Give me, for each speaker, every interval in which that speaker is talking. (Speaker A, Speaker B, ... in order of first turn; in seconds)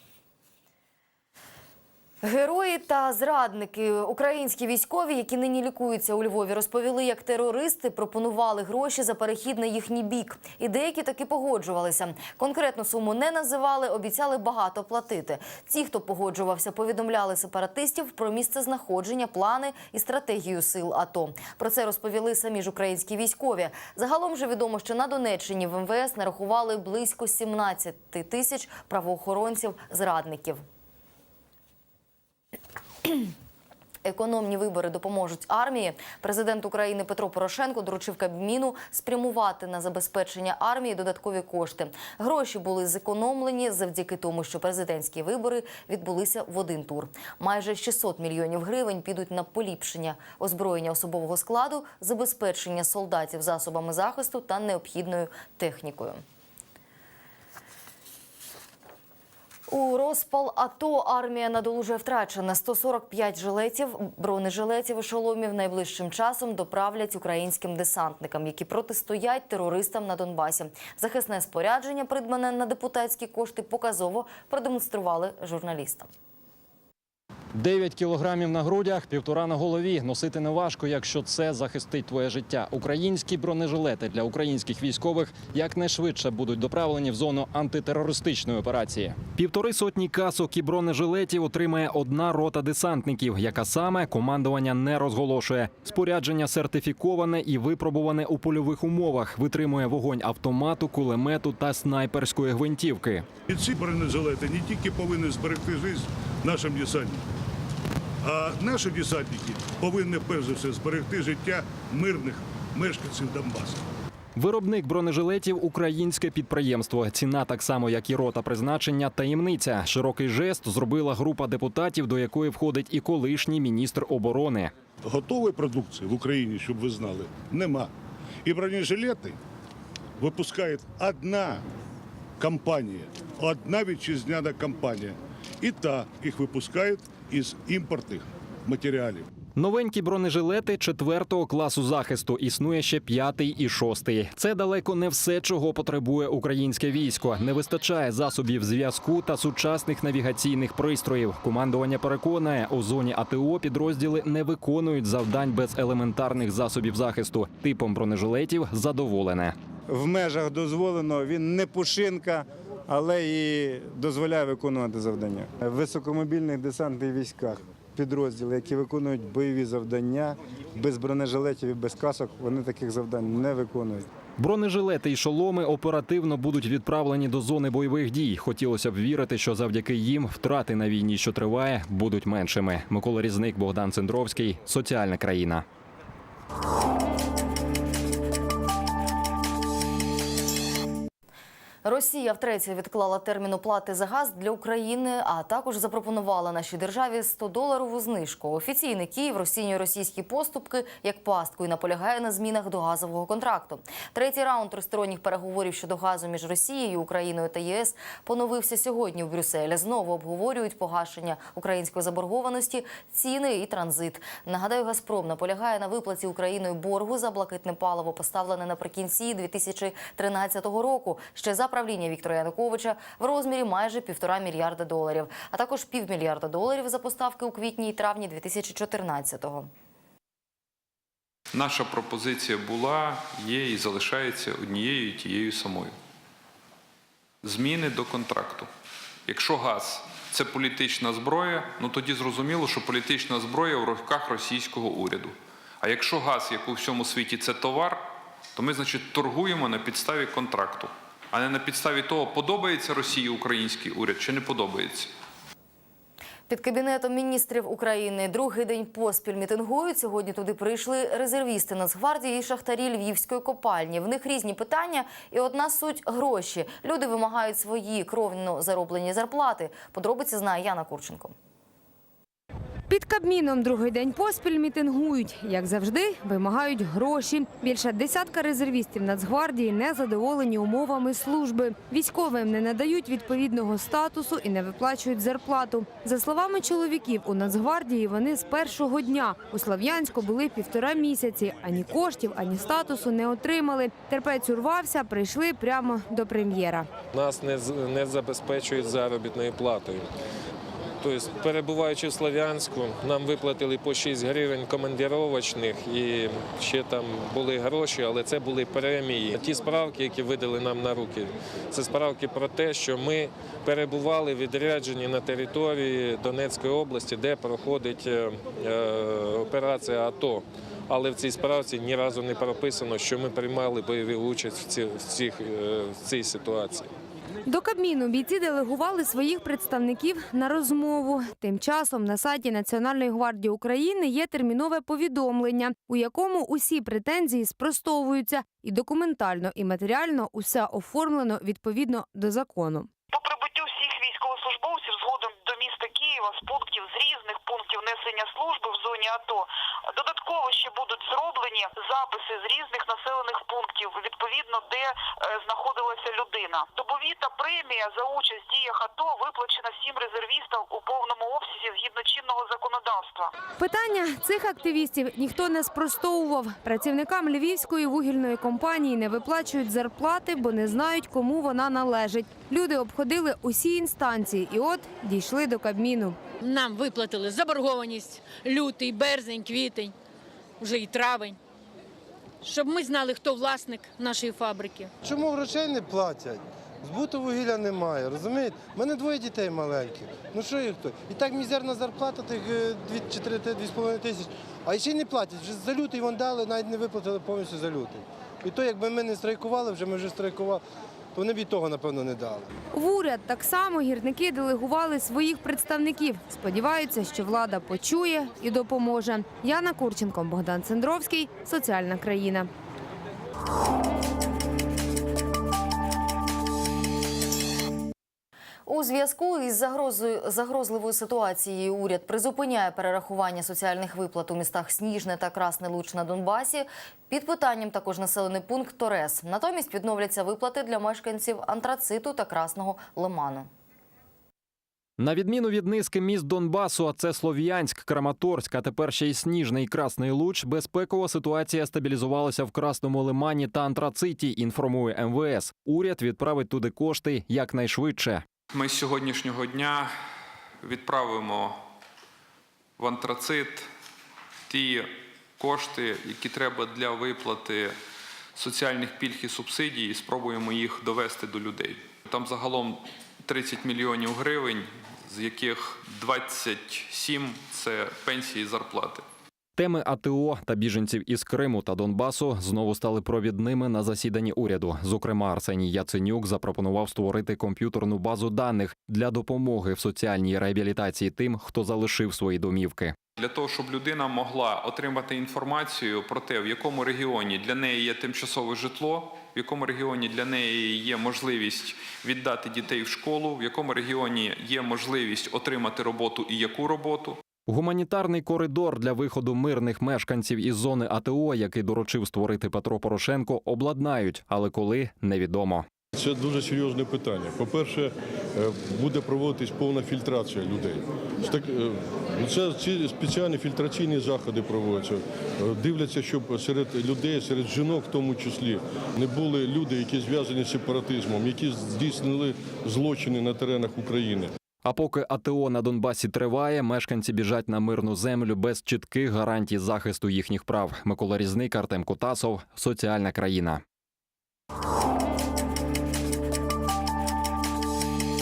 Speaker A: 2.2-30.6, 33.0-33.3, 34.0-56.2, 59.7-76.1, 191.8-229.7, 256.5-271.4, 418.7-433.5
Speaker B: 77.5-103.3, 114.4-124.7, 139.6-159.5, 174.4-185.7, 435.0-448.2, 469.6-483.0, 497.5-505.7, 524.6-533.6
Speaker C: 103.5-107.2, 108.2-113.8, 125.0-127.9, 128.4-129.4, 130.2-131.6, 132.4-139.3
Speaker D: 159.9-174.1
Speaker E: 231.5-235.9, 237.4-238.7, 239.3-248.0, 248.6-255.1, 448.5-449.9, 450.6-451.6, 452.8-453.7, 454.5-457.7, 458.4-469.0, 483.2-497.2
Speaker F: 272.9-296.9, 327.4-342.9, 363.6-376.2, 402.7-412.5
Speaker G: 297.1-300.1, 301.0-326.9
Speaker H: 343.1-363.3
Speaker I: 376.4-379.9, 380.6-381.4, 382.4-384.9
Speaker J: 385.0-400.6, 401.1-402.5
Speaker K: 505.9-524.3